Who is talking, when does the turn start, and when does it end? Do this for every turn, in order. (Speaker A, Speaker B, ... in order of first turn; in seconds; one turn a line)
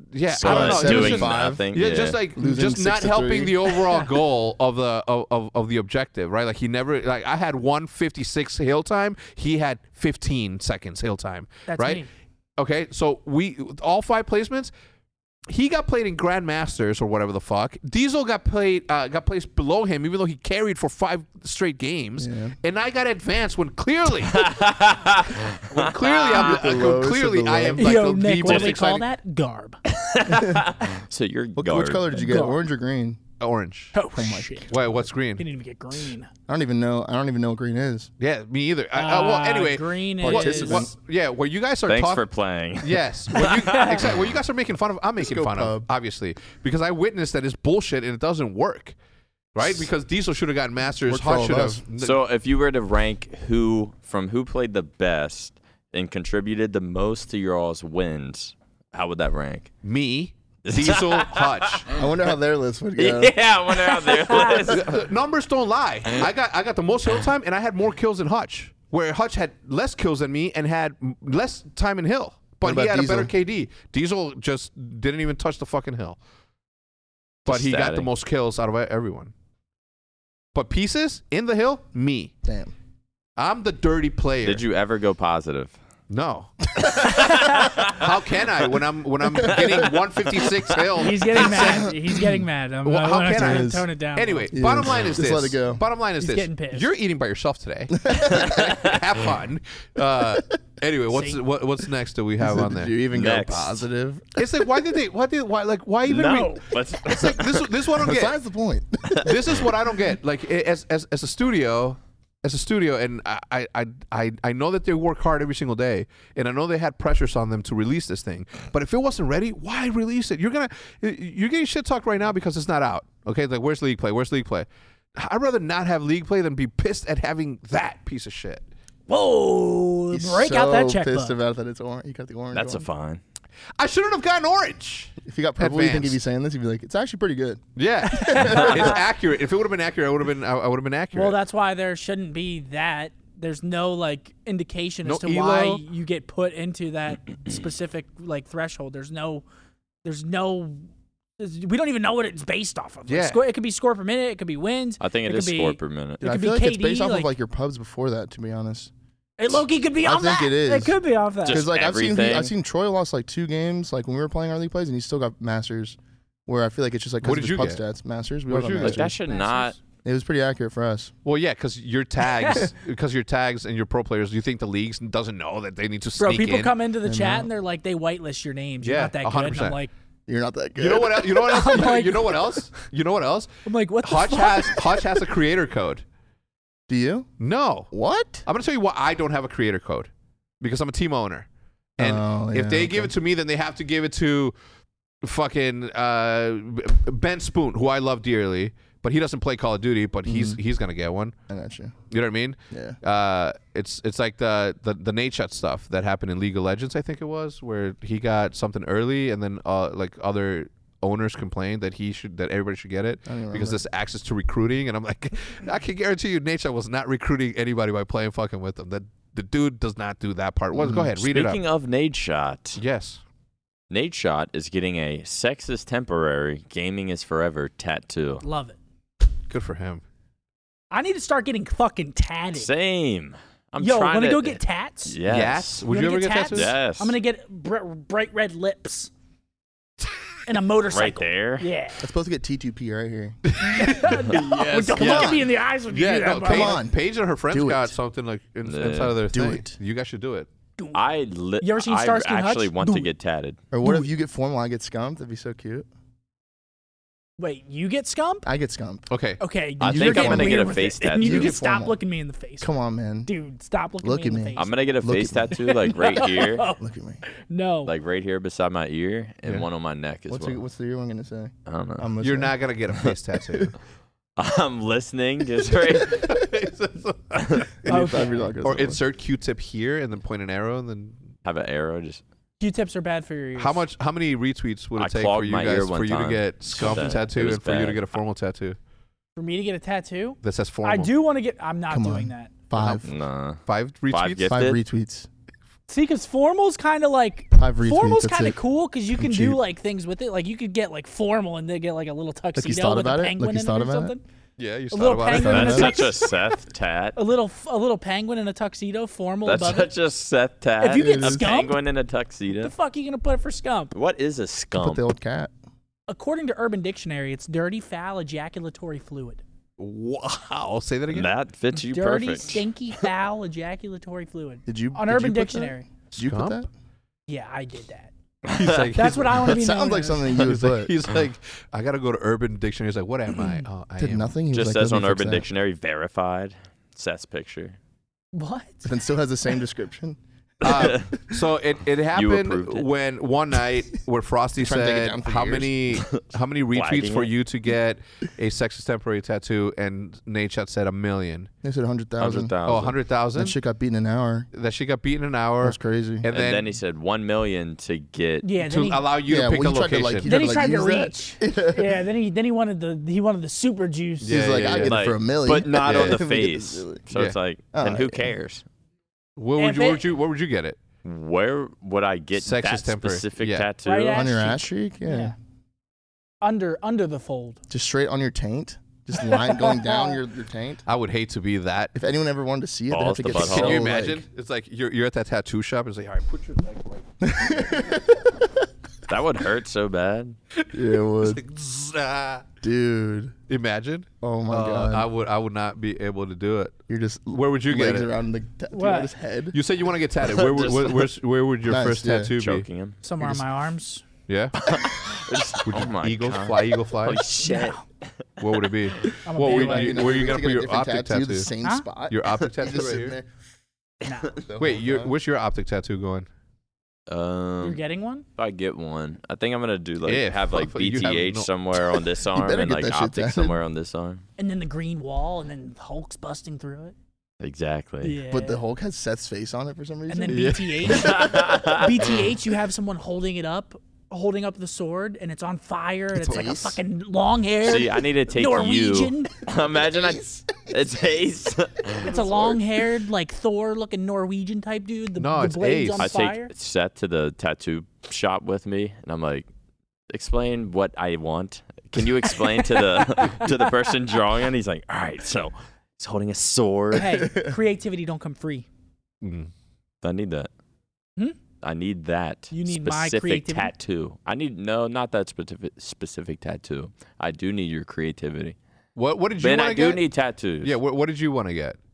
Speaker A: 0.1-12.0
Speaker B: 0.3-2.2
Speaker C: 0.4-1.6
Speaker C: 2.3-3.9
Speaker D: 11.7-12.1
Speaker A: 12.6-14.7
Speaker A: 15.5-24.5
Speaker C: 22.2-22.6
Speaker B: 24.3-26.6
Speaker A: 25.6-29.1
Speaker C: 26.3-28.1
Speaker D: 27.8-29.8
Speaker B: 28.4-28.8
Speaker B: 29.9-32.3
Speaker C: 30.3-30.6
Speaker C: 31.6-33.2
Speaker D: 32.1-32.6
Speaker A: 33.4-33.9
Speaker D: 33.9-34.7
Speaker C: 34.1-34.8
Speaker A: 34.7-35.4
Speaker D: 35.4-36.3
Speaker C: 36.5-38.1
Speaker A: 38.2-42.2
Speaker D: 38.9-40.9
Speaker C: 40.2-40.9
Speaker B: 41.9-44.1
Speaker A: 42.8-49.0
Speaker D: 43.6-44.0
Speaker C: 45.2-45.9
Speaker A: 49.5-52.2
Speaker C: 51.0-51.8
Speaker B: 52.0-59.7
Speaker A: 59.8-61.9
Speaker B: 60.6-62.0
Speaker C: 61.9-63.4
Speaker B: 63.0-65.0
Speaker A: 64.6-76.2
Speaker C: 72.6-73.3
Speaker B: 77.4-78.1
Speaker A: 77.5-79.3
Speaker A: 80.5-82.3
Speaker C: 82.4-82.7
Speaker A: 83.4-84.6
Speaker B: 84.4-85.7
Speaker A: 86.1-91.9
Speaker C: 86.8-87.4
Speaker B: 87.6-88.0
Speaker C: 89.3-89.9
Speaker D: 91.0-94.5
Speaker C: 91.4-92.4
Speaker A: 92.8-103.8
Speaker C: 93.3-93.9
Speaker C: 94.5-95.8
Speaker D: 96.2-96.9
Speaker C: 98.0-98.7
Speaker B: 98.3-99.0
Speaker D: 101.1-101.4
Speaker C: 102.4-104.4
Speaker B: 103.1-103.8
Speaker A: 104.3-108.3
Speaker B: 106.1-107.8
Speaker D: 106.1-106.7
Speaker C: 108.0-109.5
Speaker A: 109.1-128.7
Speaker D: 129.1-131.4
Speaker C: 130.1-132.8
Speaker B: 132.5-133.2
Speaker A: 133.8-136.2
Speaker C: 135.2-137.6
Speaker A: 137.8-141.4
Speaker C: 138.2-139.0
Speaker D: 138.2-138.9
Speaker D: 141.1-149.4
Speaker A: 145.0-145.8
Speaker D: 150.0-150.8
Speaker D: 151.4-157.3
Speaker A: 153.1-153.4
Speaker B: 155.0-156.2
Speaker C: 156.2-158.9
Speaker D: 159.4-161.7
Speaker C: 160.0-169.1
Speaker B: 161.4-162.5
Speaker A: 167.2-167.8
Speaker A: 168.5-169.1
Speaker B: 168.8-169.8
Speaker D: 169.2-169.8
Speaker C: 170.0-171.1
Speaker A: 171.2-176.7
Speaker D: 172.2-172.7
Speaker D: 176.2-179.9
Speaker C: 177.0-177.5
Speaker A: 178.8-179.8
Speaker C: 180.3-181.8
Speaker A: 180.8-183.5
Speaker D: 181.3-182.6
Speaker D: 183.7-185.1
Speaker A: 184.0-186.0
Speaker C: 186.9-187.3
Speaker A: 187.4-187.9
Speaker C: 187.9-188.4
Speaker A: 188.4-190.1
Speaker A: 190.6-194.5
Speaker C: 192.0-193.1
Speaker A: 195.2-201.3
Speaker C: 200.2-200.6
Speaker C: 201.5-201.9
Speaker A: 202.1-221.6
Speaker C: 202.7-203.0
Speaker C: 213.2-213.8
Speaker C: 220.7-221.1
Speaker B: 221.1-222.8
Speaker A: 222.8-223.2
Speaker B: 223.9-228.4
Speaker D: 228.4-228.8
Speaker A: 229.5-230.0
Speaker D: 230.9-232.7
Speaker B: 232.5-235.8
Speaker D: 233.8-235.2
Speaker A: 235.2-236.7
Speaker D: 235.9-239.1
Speaker B: 236.5-237.1
Speaker D: 240.4-242.0
Speaker B: 240.9-241.7
Speaker C: 242.0-243.4
Speaker A: 243.5-245.4
Speaker D: 243.6-246.8
Speaker C: 244.9-245.4
Speaker A: 245.9-250.5
Speaker C: 246.3-247.9
Speaker B: 248.6-249.2
Speaker C: 249.3-249.8
Speaker D: 250.8-251.0
Speaker B: 250.9-253.6
Speaker D: 251.6-253.1
Speaker C: 253.7-255.9
Speaker D: 253.8-254.1
Speaker D: 257.4-258.4
Speaker C: 258.4-259.1
Speaker A: 259.1-260.5
Speaker D: 259.4-262.7
Speaker B: 259.8-261.6
Speaker C: 259.9-262.0
Speaker C: 262.6-263.3
Speaker D: 263.2-264.8
Speaker C: 264.0-265.7
Speaker B: 264.6-266.7
Speaker D: 265.5-267.9
Speaker C: 266.8-267.2
Speaker B: 267.8-270.6
Speaker C: 270.3-272.5
Speaker B: 271.7-272.1
Speaker A: 272.2-273.7
Speaker B: 274.4-276.4
Speaker A: 276.0-277.9
Speaker B: 277.4-277.7
Speaker C: 277.8-279.0
Speaker D: 277.9-278.4
Speaker A: 278.6-281.3
Speaker B: 281.4-282.2
Speaker D: 282.6-283.8
Speaker A: 283.6-288.8
Speaker B: 284.9-288.0
Speaker D: 289.4-292.5
Speaker A: 290.4-291.1
Speaker C: 291.9-293.1
Speaker A: 292.8-293.1
Speaker B: 293.0-294.8
Speaker A: 293.6-294.6
Speaker C: 294.5-295.3
Speaker D: 295.9-304.2
Speaker C: 297.5-298.6
Speaker C: 299.1-299.6
Speaker C: 302.5-304.1
Speaker A: 304.6-306.0
Speaker D: 304.9-306.4
Speaker C: 305.3-306.0
Speaker B: 305.3-307.2
Speaker D: 307.1-309.9
Speaker B: 309.4-312.7
Speaker D: 310.8-311.8
Speaker C: 310.9-311.4
Speaker D: 312.5-313.9
Speaker B: 313.9-315.0
Speaker C: 314.7-315.5
Speaker D: 316.1-319.4
Speaker A: 319.8-321.3
Speaker B: 321.1-323.0
Speaker D: 321.9-325.9
Speaker C: 324.6-326.7
Speaker A: 326.1-326.6
Speaker D: 327.3-328.1
Speaker B: 328.4-329.1
Speaker A: 328.5-329.6
Speaker D: 328.9-330.3
Speaker C: 329.4-330.9
Speaker A: 330.3-334.3
Speaker D: 333.4-333.6
Speaker C: 334.0-335.5
Speaker B: 334.5-337.8
Speaker D: 338.3-338.9
Speaker C: 338.8-340.2
Speaker A: 340.6-351.5
Speaker B: 340.6-341.1
Speaker B: 342.1-342.9
Speaker C: 344.6-345.8
Speaker B: 346.7-347.3
Speaker C: 351.6-352.5
Speaker B: 352.2-352.9
Speaker A: 352.6-353.6
Speaker C: 353.4-354.5
Speaker A: 354.5-356.7
Speaker C: 355.6-356.2
Speaker B: 356.3-358.4
Speaker D: 358.4-359.1
Speaker A: 358.6-360.5
Speaker C: 359.3-362.0
Speaker D: 360.2-364.7
Speaker A: 364.2-364.9
Speaker C: 364.2-367.0
Speaker B: 364.7-368.6
Speaker A: 365.8-366.2
Speaker C: 367.7-368.3
Speaker A: 369.4-370.8
Speaker D: 369.6-370.1
Speaker B: 371.0-374.6
Speaker A: 372.4-373.7
Speaker D: 373.8-375.3
Speaker C: 374.1-375.3
Speaker D: 376.4-377.6
Speaker C: 377.7-380.8
Speaker D: 379.2-380.2
Speaker A: 380.9-381.9
Speaker C: 381.9-384.2
Speaker B: 382.9-383.9
Speaker A: 383.3-387.0
Speaker C: 387.2-388.5
Speaker B: 389.1-390.4
Speaker A: 390.6-392.4
Speaker C: 390.7-391.4
Speaker C: 392.6-393.3
Speaker A: 393.5-396.8
Speaker C: 394.2-395.1
Speaker C: 396.9-399.6
Speaker A: 397.3-398.1
Speaker D: 398.7-399.1
Speaker A: 399.5-402.7
Speaker B: 400.2-401.1
Speaker C: 401.6-402.3
Speaker B: 402.4-403.0
Speaker D: 403.0-404.1
Speaker A: 404.3-404.6
Speaker B: 404.6-408.1
Speaker A: 405.6-407.2
Speaker D: 407.4-407.8
Speaker A: 408.4-411.5
Speaker D: 409.2-410.3
Speaker C: 409.4-413.3
Speaker A: 412.1-413.2
Speaker D: 414.0-414.4
Speaker C: 414.4-415.1
Speaker A: 414.6-416.3
Speaker B: 417.1-417.8
Speaker D: 417.6-418.2
Speaker B: 418.4-424.2
Speaker A: 420.0-421.5
Speaker C: 422.3-423.6
Speaker D: 424.4-426.9
Speaker B: 427.4-428.2
Speaker D: 428.0-428.6
Speaker C: 428.3-431.3
Speaker D: 430.1-439.3
Speaker A: 430.3-430.6
Speaker B: 430.8-432.2
Speaker C: 436.1-436.8
Speaker B: 437.6-442.1
Speaker C: 439.5-440.7
Speaker C: 442.0-442.6
Speaker D: 442.0-446.5
Speaker A: 445.2-446.2
Speaker B: 446.0-449.5
Speaker B: 450.1-457.3
Speaker D: 452.7-453.6
Speaker D: 456.9-458.7
Speaker C: 457.2-457.6
Speaker A: 459.2-459.5
Speaker B: 460.0-460.5
Speaker B: 461.6-468.6
Speaker D: 462.5-463.7
Speaker A: 468.9-470.0
Speaker B: 469.4-470.7
Speaker A: 470.6-471.8